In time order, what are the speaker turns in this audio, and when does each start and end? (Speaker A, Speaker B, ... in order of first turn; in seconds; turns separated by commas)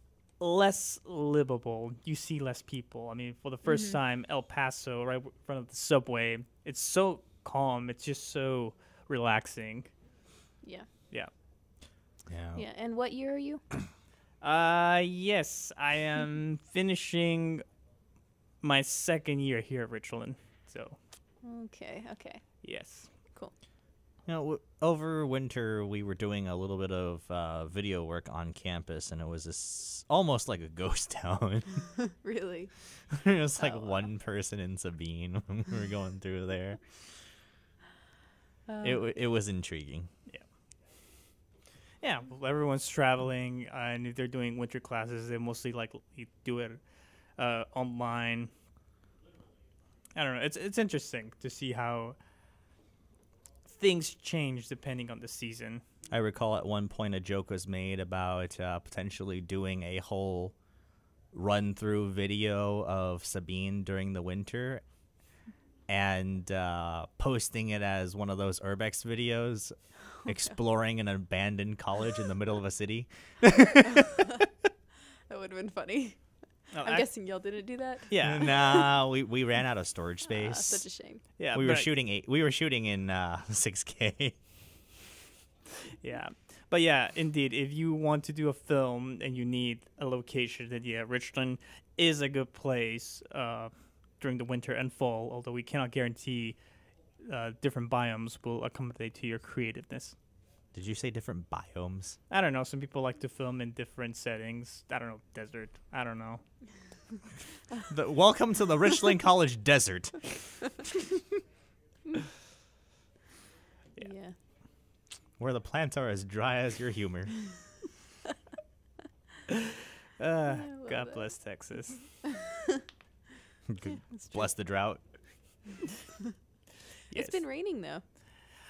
Speaker A: 0.4-9.9, Speaker B: 3.6-4.0, Speaker C: 12.3-12.6, Speaker B: 12.5-13.6, Speaker A: 14.4-17.6, Speaker A: 18.6-21.0, Speaker B: 21.4-22.6, Speaker A: 22.6-23.1, Speaker C: 24.2-31.9, Speaker B: 32.0-32.7, Speaker C: 33.1-36.9, Speaker B: 33.5-34.0, Speaker B: 38.7-39.0, Speaker C: 38.8-40.1, Speaker A: 42.0-46.8, Speaker A: 47.4-48.5, Speaker A: 50.1-52.1, Speaker A: 53.7-55.8, Speaker C: 56.1-60.5, Speaker C: 61.3-64.8, Speaker C: 65.9-74.3, Speaker B: 74.1-74.4, Speaker B: 75.3-78.9, Speaker A: 76.7-77.1, Speaker A: 78.1-78.5, Speaker C: 78.2-80.9, Speaker B: 80.3-81.2, Speaker A: 81.4-81.9, Speaker C: 81.5-84.3, Speaker A: 86.0-96.6, Speaker A: 97.2-100.1, Speaker C: 100.7-102.2, Speaker A: 102.3-106.4, Speaker C: 107.9-110.7, Speaker B: 114.0-114.3, Speaker C: 115.4-117.3, Speaker A: 119.5-122.1, Speaker B: 120.5-121.2, Speaker B: 122.3-122.8, Speaker C: 123.7-125.0, Speaker B: 124.1-124.5, Speaker A: 127.1-127.4, Speaker B: 127.1-128.0